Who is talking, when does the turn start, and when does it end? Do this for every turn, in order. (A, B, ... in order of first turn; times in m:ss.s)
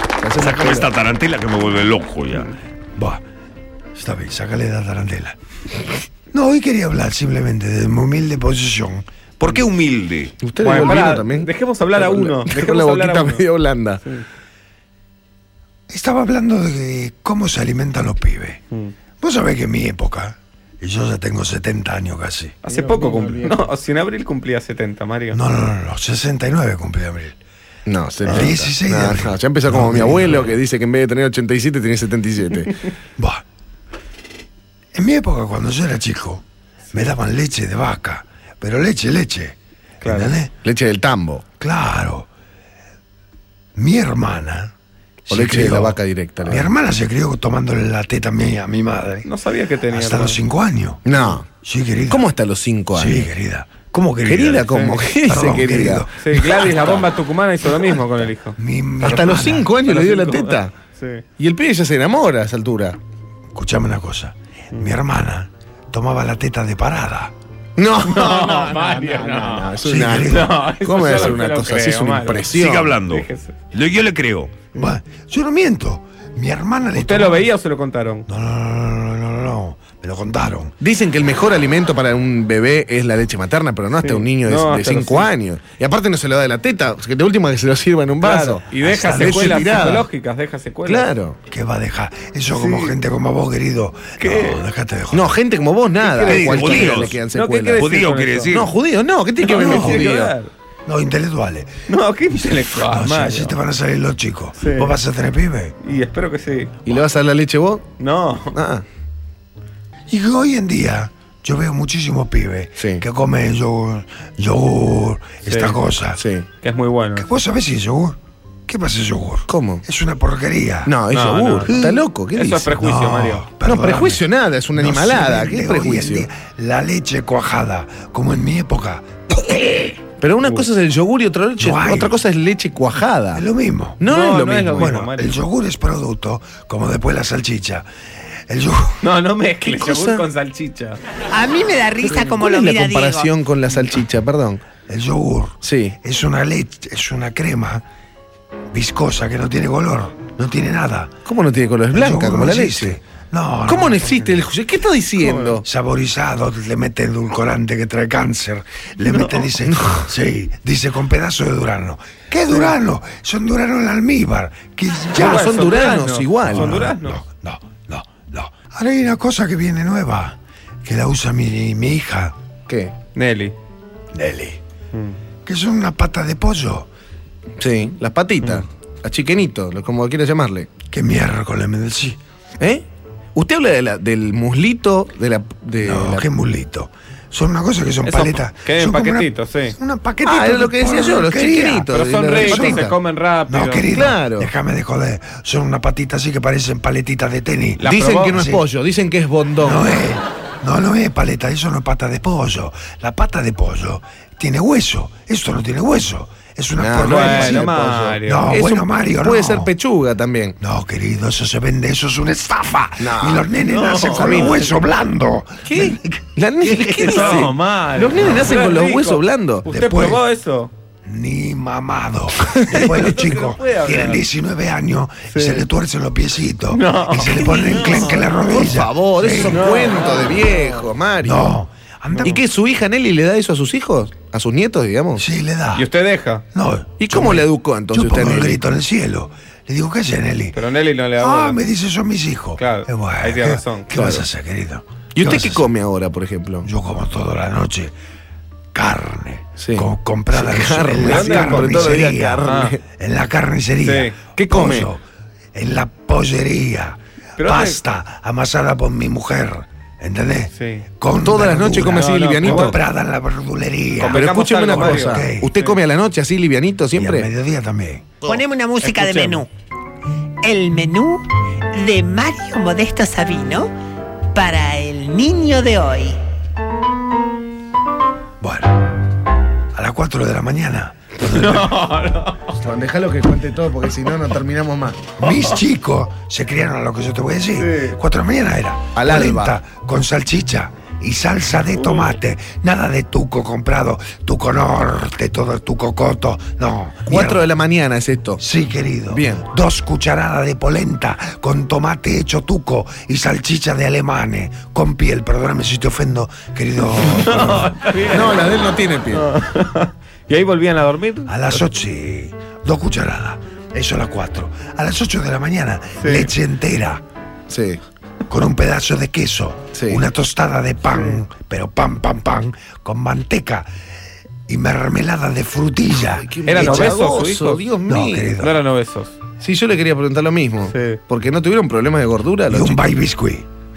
0:00.2-0:00.9 A
0:00.4-0:02.5 B
0:03.0-0:03.2 C
0:04.0-0:05.4 C
0:06.3-0:09.1 C
0:09.4-0:10.4 B
0:10.4-0:14.0 A
0:10.6-0:13.4 D
0:15.9-0:18.6 C
0:19.2-0:22.6 C
0:22.6-0:25.4 D
0:22.7-0:23.5 A
0:25.3-0:27.4 C
0:27.9-0:32.8 A
0:28.3-0:28.5 D
0:28.3-0:30.5 C
0:33.2-0:33.4 C
0:34.9-0:40.5 C
0:40.0-0:40.4 D
0:40.6-0:41.4 A
0:41.6-0:42.3 C
0:43.8-0:44.7 C
0:45.3-0:49.3 C
0:45.3-0:46.7 A
0:49.2-0:50.4 D
0:49.9-0:51.0 C
0:51.0-0:51.4 A
0:51.6-0:52.3 C
0:52.1-0:53.3 A
0:52.9-0:56.6 C
0:54.3-0:57.0 A
0:54.7-0:55.0 D
0:56.2-0:58.6 D
0:58.6-0:59.7 C
0:59.0-1:00.7 A
0:59.8-1:01.2 D
1:01.4-1:03.0 A
1:03.5-1:07.3 C
1:07.8-1:13.0 A
1:08.0-1:13.6 D
1:09.8-1:10.6 C
1:12.5-1:14.6 B
1:14.8-1:17.5 C
1:16.9-1:18.3 D
1:18.3-1:20.8 C
1:20.8-1:30.1 A
1:24.0-1:25.3 D
1:28.2-1:31.1 D
1:28.8-1:29.8 C
1:30.8-1:31.4 A
1:31.5-1:35.4 C
1:32.5-1:33.0 D
1:34.2-1:34.6 D
1:35.1-1:37.9 A
1:36.0-1:38.6 D
1:36.2-1:37.2 B
1:37.8-1:38.7 B
1:38.5-1:40.3 A
1:39.4-1:40.5 D
1:39.6-1:40.1 C
1:40.9-1:41.8 C
1:41.9-1:43.6 D
1:42.8-1:45.8 C
1:44.6-1:45.0 D
1:45.8-1:46.8 D
1:46.8-1:47.8 A
1:48.0-1:48.6 D
1:48.5-1:48.8 A
1:50.1-1:56.2 C
1:52.8-1:53.0 A
1:55.4-1:55.8 D
1:56.2-1:56.5 A
1:56.6-1:57.4 D
1:57.2-2:01.0 C
1:59.5-1:59.8 A
2:00.8-2:02.7 A
2:01.1-2:01.8 D
2:01.6-2:02.1 C
2:02.3-2:03.5 D
2:02.7-2:10.0 C
2:03.6-2:06.3 A
2:10.2-2:13.4 A
2:10.4-2:10.7 D
2:11.6-2:12.2 C
2:13.3-2:14.0 C
2:14.0-2:15.0 A
2:14.0-2:15.4 D
2:14.7-2:17.9 C
2:18.5-2:19.0 C
2:19.0-2:21.0 D
2:19.6-2:20.3 A
2:21.3-2:23.3 E
2:22.0-2:24.6 A
2:24.9-2:27.8 C
2:25.6-2:26.0 A
2:28.7-2:31.1 C
2:31.2-2:33.0 A
2:31.9-2:34.2 C
2:33.7-2:35.6 A
2:33.9-2:34.5 D
2:35.2-2:35.6 D
2:35.6-2:45.6 C
2:39.0-2:39.5 D
2:39.8-2:40.0 A
2:42.5-2:42.7 D
2:45.2-2:46.8 A
2:45.2-2:47.2 D
2:46.5-2:52.4 C
2:52.7-2:53.0 A
2:53.2-2:53.6 D
2:54.1-2:54.6 C
2:55.4-2:56.9 C
2:57.6-3:00.7 A
3:00.9-3:02.2 C
3:02.6-3:06.3 A
3:05.8-3:12.9 C
3:08.0-3:09.8 D
3:10.2-3:13.0 A
3:11.9-3:13.9 D
3:13.5-3:18.6 C
3:13.9-3:14.5 A
3:17.8-3:18.4 D
3:17.8-3:19.9 A
3:19.6-3:27.7 C
3:26.8-3:30.6 A
3:27.0-3:28.5 D
3:28.2-3:29.7 C
3:30.6-3:37.5 C
3:33.0-3:33.5 A
3:33.6-3:34.8 D
3:34.0-3:34.6 A
3:35.6-3:39.7 A
3:37.0-3:40.7 D
3:38.2-3:38.4 C
3:39.7-3:40.2 C
3:41.1-3:49.7 C
3:42.5-3:43.0 A
3:42.8-3:44.2 D
3:45.3-3:45.7 D
3:46.7-3:48.3 D
3:47.3-3:51.6 A
3:49.5-3:50.6 D
3:51.2-3:52.4 C
3:52.2-3:52.4 D
3:52.2-3:55.2 A
3:55.2-3:55.9 C
3:55.8-3:56.4 D
3:56.5-4:00.6 C
3:57.0-3:58.6 A
4:00.5-4:01.6 D
4:01.2-4:05.7 C
4:02.6-4:03.9 D
4:03.9-4:04.3 A
4:05.2-4:06.7 A
4:06.6-4:07.9 C
4:08.7-4:15.0 C
4:09.6-4:12.8 A
4:11.0-4:12.8 D
4:13.8-4:14.2 D
4:14.4-4:14.9 A
4:15.5-4:25.5 C
4:17.4-4:17.8 D
4:20.6-4:20.9 D
4:21.2-4:22.8 A
4:21.8-4:22.8 D
4:24.0-4:25.8 D
4:24.0-4:27.3 A
4:27.0-4:28.1 C
4:28.2-4:29.5 E
4:28.8-4:29.4 D
4:30.4-4:33.7 E
4:34.3-4:36.2 E
4:38.4-4:38.7 C
4:39.7-4:41.8 C
4:41.2-4:42.6 D
4:42.6-4:45.1 A
4:45.2-4:57.5 C
4:47.6-4:48.0 D
4:49.0-4:49.6 A
4:51.7-4:52.1 D
4:57.1-4:58.4 A
4:58.4-5:07.8 C
4:59.1-4:59.4 A
5:06.9-5:11.6 D
5:08.1-5:09.3 A
5:11.3-5:17.0 C
5:16.0-5:16.3 D
5:17.5-5:17.8 A
5:18.3-5:23.7 C
5:19.7-5:20.0 A
5:20.9-5:21.2 D
5:24.5-5:27.0 C
5:26.2-5:28.4 A
5:26.4-5:27.7 D
5:27.9-5:28.6 C
5:28.4-5:29.2 D
5:29.4-5:32.8 A
5:30.7-5:31.0 D
5:32.5-5:33.5 C